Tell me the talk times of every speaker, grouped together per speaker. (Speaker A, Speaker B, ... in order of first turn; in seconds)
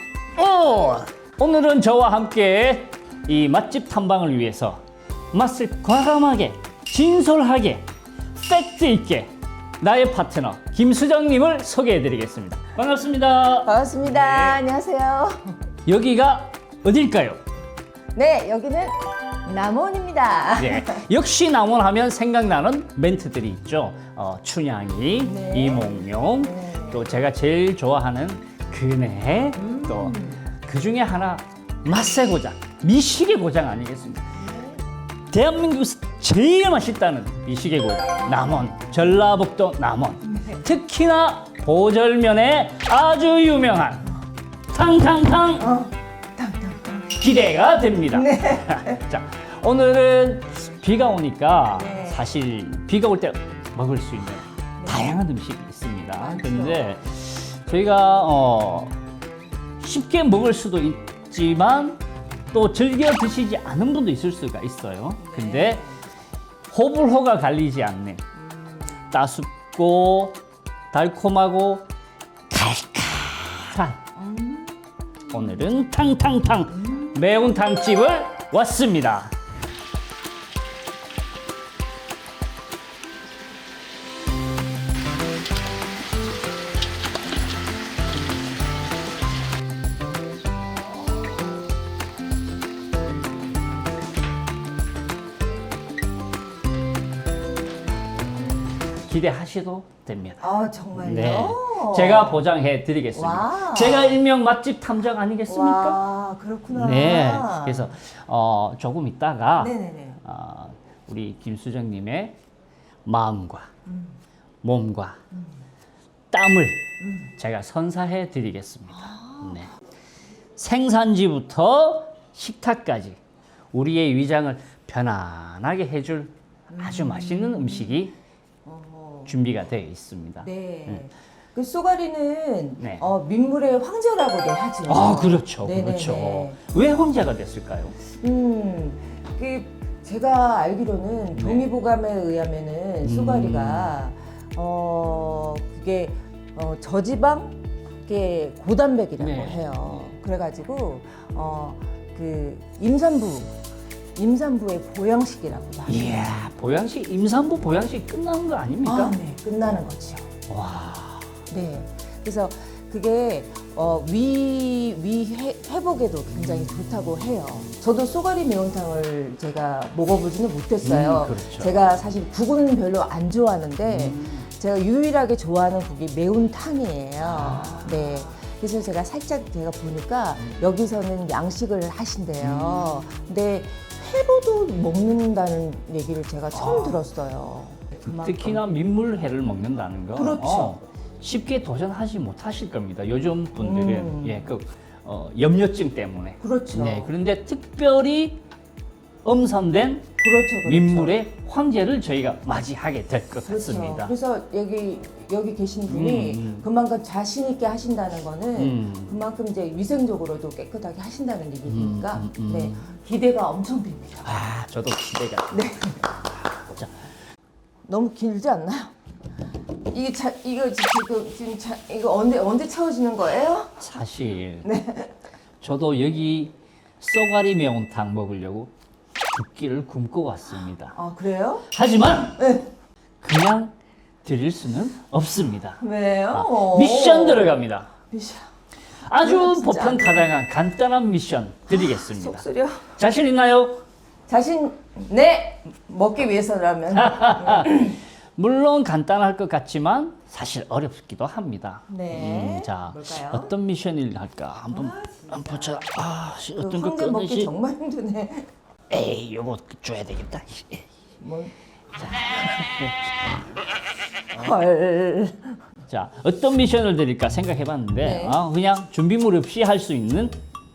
Speaker A: 0.3-14.6, 15.8-17.4, 20.6-34.4, 35.3-44.1, 44.7-45.7, 47.2-58.9, 59.8-65.9, 66.7-68.2, 69.1-70.4, 70.9-71.8, 72.5-74.0, 75.3-79.3, 99.0-106.0, 106.7-112.4, 113.0-113.7, 114.6-115.2, 116.3-119.7, 120.6-123.2, 123.7-128.1, 129.2-131.0, 132.8-133.1, 134.9-138.0, 141.3-141.7, 143.0-143.9, 149.2-150.1, 155.9-159.2, 160.5-161.4, 170.8-171.8, 173.8-174.4, 177.2-178.2, 182.4-183.0, 186.5-187.0, 188.0-198.4, 199.2-200.1, 200.6-204.1, 205.9-206.7, 208.6-209.2, 211.7-212.9, 214.2-217.1, 223.8-224.7, 225.6-228.7, 229.3-231.0, 231.7-232.4, 233.2-237.9, 239.0-243.8, 246.9-257.5, 258.9-260.9, 262.0-263.1, 265.9-270.4
Speaker B: 13.6-15.6, 18.1-21.0, 25.2-27.0, 29.6-30.5, 34.4-34.8, 40.3-40.6, 45.6-49.0, 51.7-52.3, 54.8-55.1, 56.2-57.1, 65.2-66.0, 68.4-69.0, 74.2-74.8, 76.7-77.2, 100.4-102.5, 103.1-104.2, 105.5-107.9, 109.6-110.2, 113.9-114.2, 117.0-117.3, 118.9-119.7, 126.7-128.0, 128.6-129.3, 130.4-136.6, 138.2-153.5, 154.2-156.2, 158.8-160.3, 161.5-188.6, 190.1-190.8, 193.6-194.5, 196.4-197.1, 200.2-201.2, 203.4-214.3, 215.5-216.0, 217.8-218.9, 219.9-223.8, 224.6-225.1, 230.9-231.7, 232.4-232.7, 235.8-238.5, 239.2-240.3, 241.7-242.9, 244.3-248.0, 251.9-253.5, 254.7-255.8, 256.6-258.5, 261.2-261.5, 264.3-265.6, 268.0-268.4